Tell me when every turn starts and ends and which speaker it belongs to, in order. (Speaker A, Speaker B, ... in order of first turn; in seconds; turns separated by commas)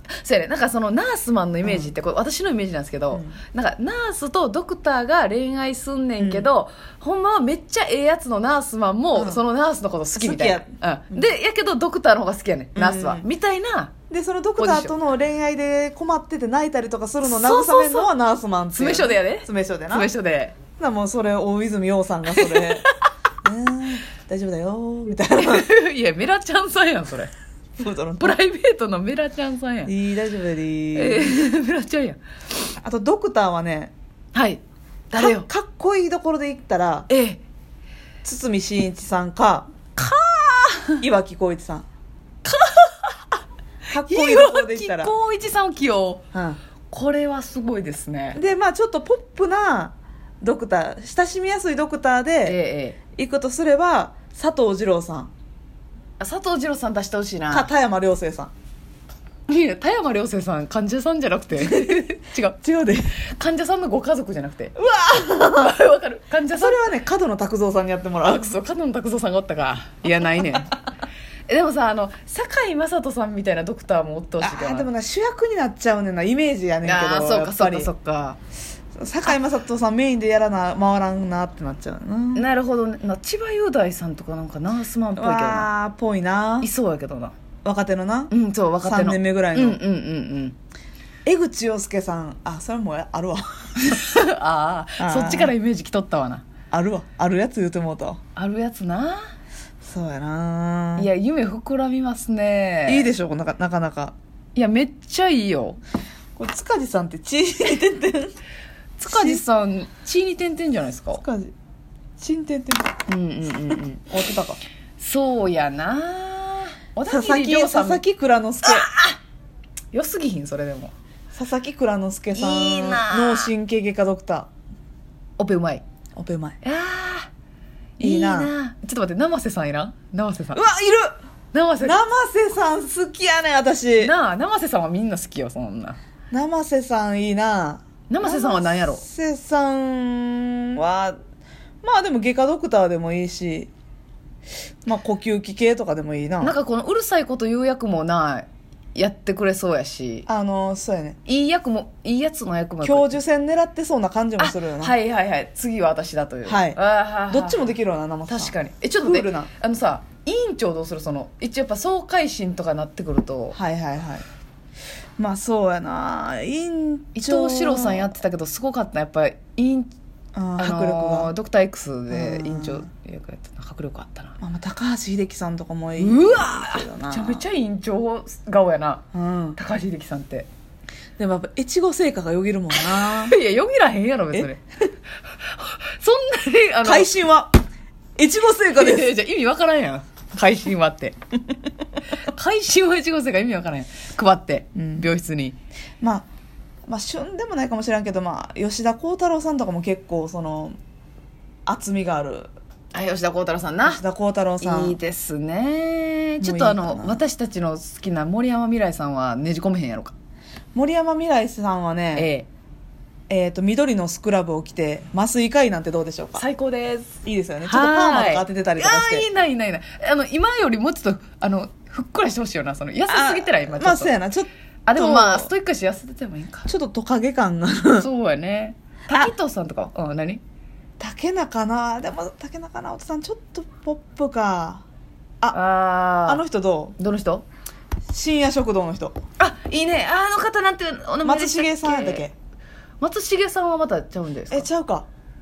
Speaker A: 0.2-13.9, Speaker B: 1.6-1.9, Speaker B: 3.1-3.4, Speaker B: 6.2-6.5, Speaker B: 9.2-9.4, Speaker B: 10.1-11.3, Speaker B: 12.7-13.2, Speaker B: 14.1-20.1, Speaker A: 14.6-14.9, Speaker A: 17.2-18.1, Speaker A: 18.7-20.6, Speaker B: 20.8-22.9, Speaker A: 22.3-22.9, Speaker B: 23.4-25.7, Speaker A: 25.4-27.3, Speaker B: 27.8-28.4, Speaker A: 28.2-29.9, Speaker B: 29.9-31.4, Speaker A: 30.9-32.2, Speaker B: 32.8-33.9, Speaker A: 34.3-35.5, Speaker B: 35.2-37.1, Speaker A: 37.1-37.4, Speaker B: 38.2-39.7, Speaker A: 40.0-41.0, Speaker B: 41.0-41.9, Speaker A: 42.4-43.3, Speaker B: 43.9-45.1, Speaker A: 43.9-46.2, Speaker B: 46.3-46.6, Speaker A: 46.9-48.4, Speaker B: 48.3-52.6, Speaker A: 52.4-53.0, Speaker B: 53.1-55.3, Speaker A: 56.2-57.7, Speaker B: 57.5-58.5, Speaker A: 59.5-62.6, Speaker B: 61.5-62.0, Speaker B: 62.6-63.1, Speaker A: 63.2-66.9, Speaker B: 64.8-65.8, Speaker B: 66.5-68.5, Speaker A: 68.2-70.7, Speaker A: 71.5-74.9, Speaker B: 74.4-77.9, Speaker A: 76.8-78.4, Speaker B: 79.0-82.5, Speaker A: 82.3-85.7, Speaker B: 85.2-86.7, Speaker A: 86.6-87.3, Speaker B: 87.6-88.3, Speaker A: 88.3-90.6, Speaker B: 88.8-89.8, Speaker B: 91.2-93.5, Speaker A: 93.8-96.4, Speaker B: 95.0-95.5, Speaker B: 96.7-98.2, Speaker A: 98.3-99.2, Speaker B: 99.8-101.1, Speaker A: 101.0-103.1, Speaker B: 102.9-104.1, Speaker A: 104.5-105.8, Speaker B: 106.3-108.3, Speaker A: 109.0-111.2, Speaker B: 109.0-109.4, Speaker B: 111.2-111.5, Speaker B: 112.2-113.0, Speaker A: 113.1-114.1, Speaker B: 114.1-114.6, Speaker A: 115.0-118.0, Speaker B: 117.1-118.9, Speaker A: 118.6-119.2, Speaker A: 119.9-120.9, Speaker B: 121.3-124.5, Speaker A: 122.3-123.5, Speaker A: 125.4-125.8, Speaker B: 126.2-126.6, Speaker A: 126.6-127.3, Speaker A: 128.0-130.6, Speaker B: 128.0-128.5, Speaker B: 130.5-131.2, Speaker A: 131.5-132.0, Speaker B: 131.8-134.1, Speaker A: 134.0-136.0, Speaker B: 136.3-141.2, Speaker A: 138.1-139.0, Speaker B: 141.8-143.7, Speaker B: 144.8-146.6, Speaker A: 146.4-150.2, Speaker B: 150.3-151.2, Speaker A: 151.2-153.2, Speaker B: 152.8-154.9, Speaker A: 154.4-157.7, Speaker B: 156.4-156.8, Speaker B: 157.3-159.5, Speaker A: 158.3-163.6, Speaker B: 163.5-164.2, Speaker B: 165.2-168.1, Speaker A: 167.1-169.9, Speaker B: 170.3-171.3, Speaker A: 170.6-174.4, Speaker B: 172.1-172.8, Speaker B: 174.4-177.4, Speaker A: 176.0-179.0, Speaker B: 179.1-179.6, Speaker A: 179.6-180.5, Speaker B: 181.2-183.4, Speaker A: 182.7-184.9, Speaker A: 185.4-187.1, Speaker B: 186.8-187.5, Speaker B: 188.2-189.1, Speaker A: 188.7-191.1, Speaker A: 192.2-195.6, Speaker B: 194.7-195.1, Speaker B: 196.0-196.3, Speaker B: 196.9-200.7, Speaker B: 201.7-202.5, Speaker A: 202.9-204.0, Speaker B: 203.8-205.0, Speaker A: 204.6-210.1, Speaker B: 206.4-207.2, Speaker B: 210.7-212.3, Speaker A: 212.1-212.5, Speaker B: 213.3-216.4, Speaker A: 216.3-224.1, Speaker B: 217.2-219.3, Speaker B: 223.1-225.5, Speaker A: 224.8-226.7, Speaker B: 226.7-228.1, Speaker A: 228.0-230.4, Speaker B: 231.0-234.8, Speaker A: 235.5-236.4, Speaker B: 236.2-236.9, Speaker A: 237.0-237.4, Speaker B: 238.1-239.2, Speaker A: 239.4-242.2, Speaker B: 241.2-242.3, Speaker A: 243.0-244.7, Speaker B: 244.5-245.1